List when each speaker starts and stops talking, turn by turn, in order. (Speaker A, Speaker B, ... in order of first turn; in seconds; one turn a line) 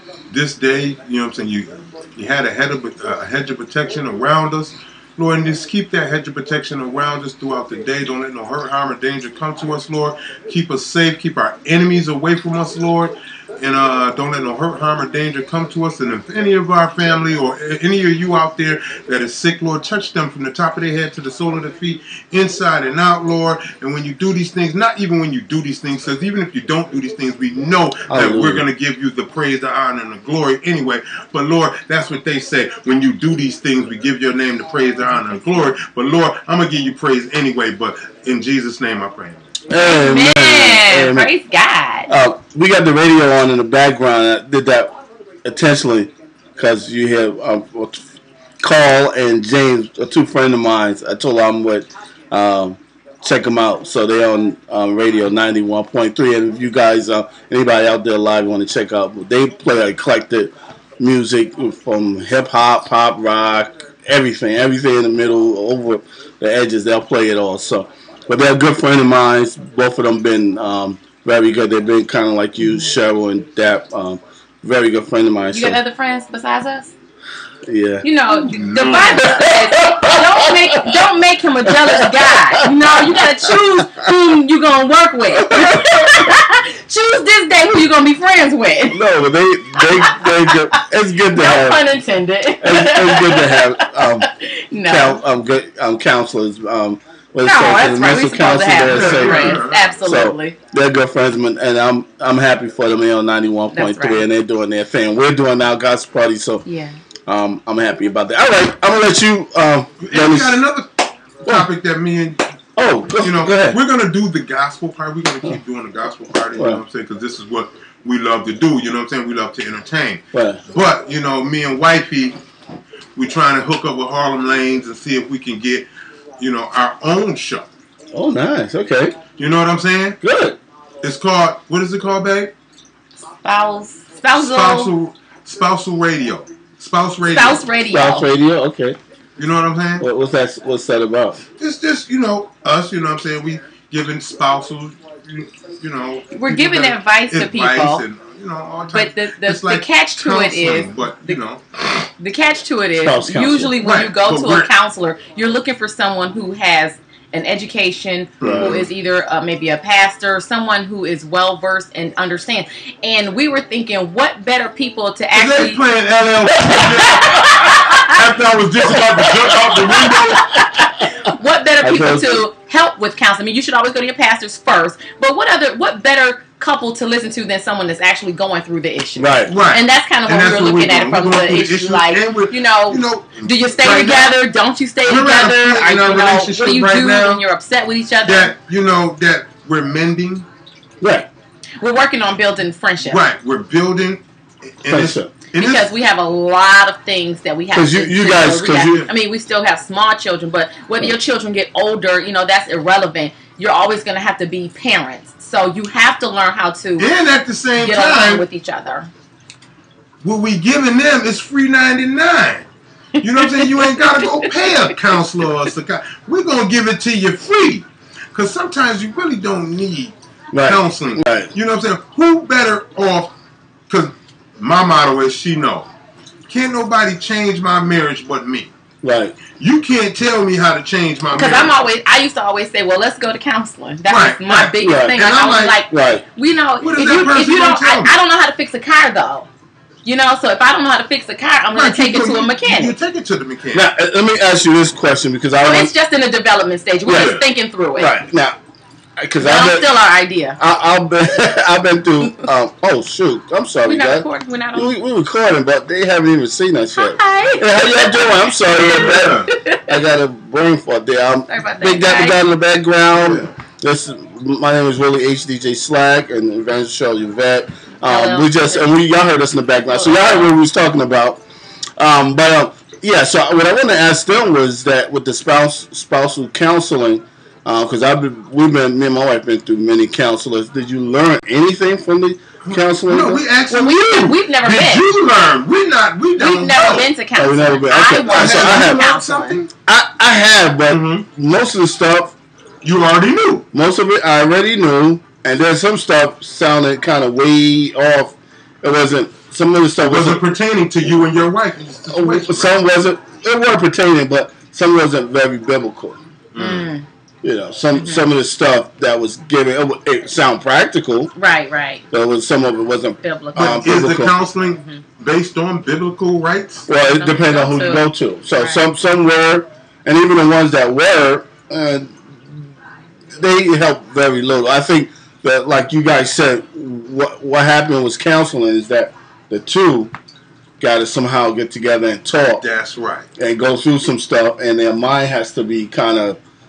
Speaker A: 0.3-39.5
Speaker B: 28.1-28.7
Speaker B: 39.7-41.3
Speaker C: 39.8-42.1
Speaker B: 42.1-48.0
Speaker B: 48.6-75.8
Speaker C: 75.5-76.9
Speaker B: 77.7-78.1
Speaker C: 78.0-89.0
Speaker A: 78.5-79.3
Speaker B: 79.2-81.0
Speaker B: 81.6-84.1
Speaker B: 85.3-86.4
Speaker B: 88.9-91.9
Speaker C: 89.8-90.6
Speaker C: 91.3-95.2
Speaker B: 92.6-94.3
Speaker B: 94.9-106.6
Speaker C: 97.4-100.6
Speaker A: 98.9-99.9
Speaker C: 103.7-104.2
Speaker C: 106.6-107.0
Speaker B: 107.3-110.6
Speaker A: 110.0-110.9
Speaker A: 111.4-112.4
Speaker B: 112.8-113.8
Speaker A: 113.2-122.4
Speaker B: 116.5-116.8
Speaker B: 120.3-120.6
Speaker A: 123.2-125.9
Speaker A: 126.4-127.7
Speaker B: 128.1-129.2
Speaker A: 129.4-130.2
Speaker B: 130.2-130.6
Speaker A: 131.0-132.5
Speaker C: 133.4-134.9
Speaker A: 134.3-137.7
Speaker C: 137.3-138.2
Speaker B: 137.9-139.0
Speaker A: 139.4-140.1
Speaker B: 140.0-141.4
Speaker A: 141.6-151.6
Speaker C: 146.3-148.0
Speaker C: 148.9-151.4
Speaker C: 152.2-165.8
Speaker B: 153.0-153.8
Speaker A: 153.8-154.7
Speaker A: 158.4-158.9
Speaker B: 158.4-158.8
Speaker A: 165.3-170.4
Speaker C: 166.8-168.2
Speaker B: 168.9-170.9
Speaker C: 170.1-188.5
Speaker B: 171.8-172.4
Speaker B: 179.2-179.5
Speaker A: 179.5-184.4
Speaker A: 185.1-187.4
Speaker A: 188.2-190.5
Speaker B: 191.0-191.3
Speaker C: 191.8-193.2
Speaker A: 193.1-195.9
Speaker B: 194.9-195.3
Speaker C: 195.6-207.1
Speaker B: 197.7-199.1
Speaker A: 198.6-199.1
Speaker A: 207.0-208.4
Speaker C: 207.8-209.1
Speaker A: 210.2-212.7
Speaker A: 213.2-223.3
Speaker C: 213.3-214.5
Speaker B: 220.5-221.5
Speaker A: 223.9-225.9
Speaker A: 226.5-228.7
Speaker B: 229.0-229.4
Speaker A: 229.5-231.8
Speaker C: 231.3-239.5
Speaker A: 234.1-235.8
Speaker B: 234.8-235.2
Speaker B: 235.9-236.2
Speaker A: 236.8-238.1
Speaker C: 240.1-242.9
Speaker A: 241.7-243.9
Speaker B: 243.7-245.9
Speaker C: 245.6-248.1
Speaker B: 247.1-247.4
Speaker A: 247.1-247.4
Speaker B: 248.0-248.6
Speaker B: 249.2-249.9
Speaker C: 249.4-250.6
Speaker B: 250.6-271.4
Speaker C: 253.9-254.9
Speaker C: 257.0-259.9
Speaker A: 258.9-259.5
Speaker C: 261.5-262.4
Speaker A: 263.1-263.5
Speaker C: 268.0-268.9
Speaker C: 269.9-270.5
Speaker B: 272.0-283.5
Speaker A: 282.6-287.1
Speaker C: 283.7-285.0
Speaker C: 286.4-289.6
Speaker B: 287.4-289.0
Speaker A: 288.3-289.7
Speaker B: 289.9-292.3
Speaker A: 290.9-291.2
Speaker A: 292.8-293.6
Speaker B: 293.7-300.5
Speaker A: 300.0-302.8
Speaker B: 302.1-306.2
Speaker A: 306.5-306.9
Speaker C: 306.6-307.1
Speaker B: 307.4-311.3
Speaker C: 308.0-308.3
Speaker C: 311.4-312.0
Speaker B: 312.1-314.4
Speaker C: 313.2-313.9
Speaker A: 313.6-316.9
Speaker C: 314.8-315.0
Speaker B: 316.9-322.6
Speaker C: 317.0-318.8
Speaker B: 323.3-330.1
Speaker B: 330.8-332.6
Speaker A: 332.6-333.3
Speaker B: 333.4-336.4